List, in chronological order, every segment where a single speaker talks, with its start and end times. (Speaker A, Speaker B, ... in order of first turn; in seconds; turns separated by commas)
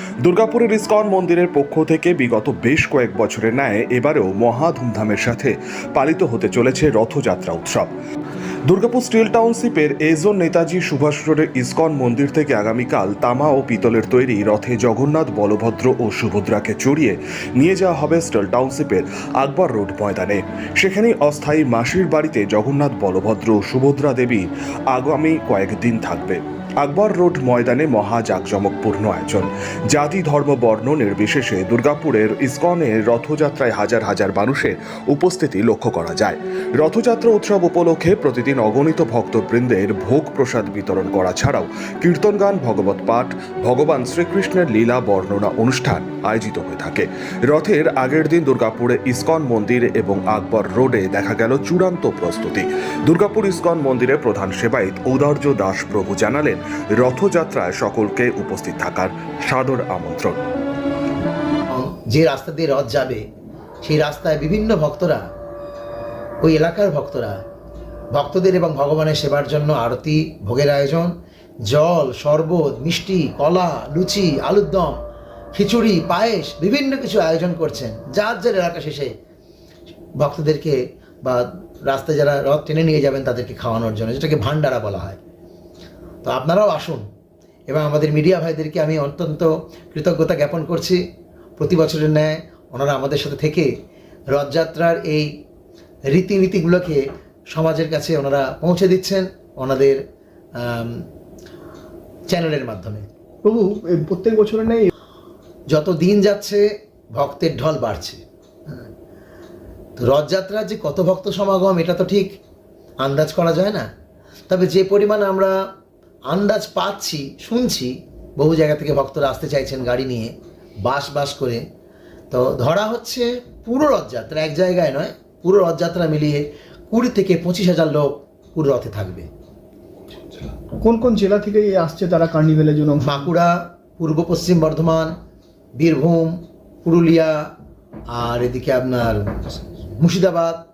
Speaker A: 0.2-7.9, Speaker A: 8.7-60.4, Speaker B: 61.7-63.2, Speaker B: 63.8-65.2, Speaker B: 66.4-67.4, Speaker B: 68.1-71.1, Speaker B: 71.7-75.0, Speaker B: 75.5-79.1, Speaker B: 80.2-85.2, Speaker B: 86.2-87.0, Speaker B: 87.7-91.0, Speaker B: 91.6-93.7, Speaker B: 94.3-95.3, Speaker B: 96.1-100.0, Speaker B: 100.6-101.0, Speaker B: 102.3-103.0, Speaker C: 103.4-104.9, Speaker B: 105.7-106.6, Speaker B: 107.2-108.9, Speaker B: 110.0-112.3, Speaker B: 113.0-113.9, Speaker B: 114.5-115.5, Speaker B: 116.3-120.3, Speaker B: 120.8-121.6, Speaker B: 122.3-129.3, Speaker C: 130.8-133.2, Speaker B: 133.0-135.1, Speaker B: 135.8-137.5, Speaker B: 138.1-140.6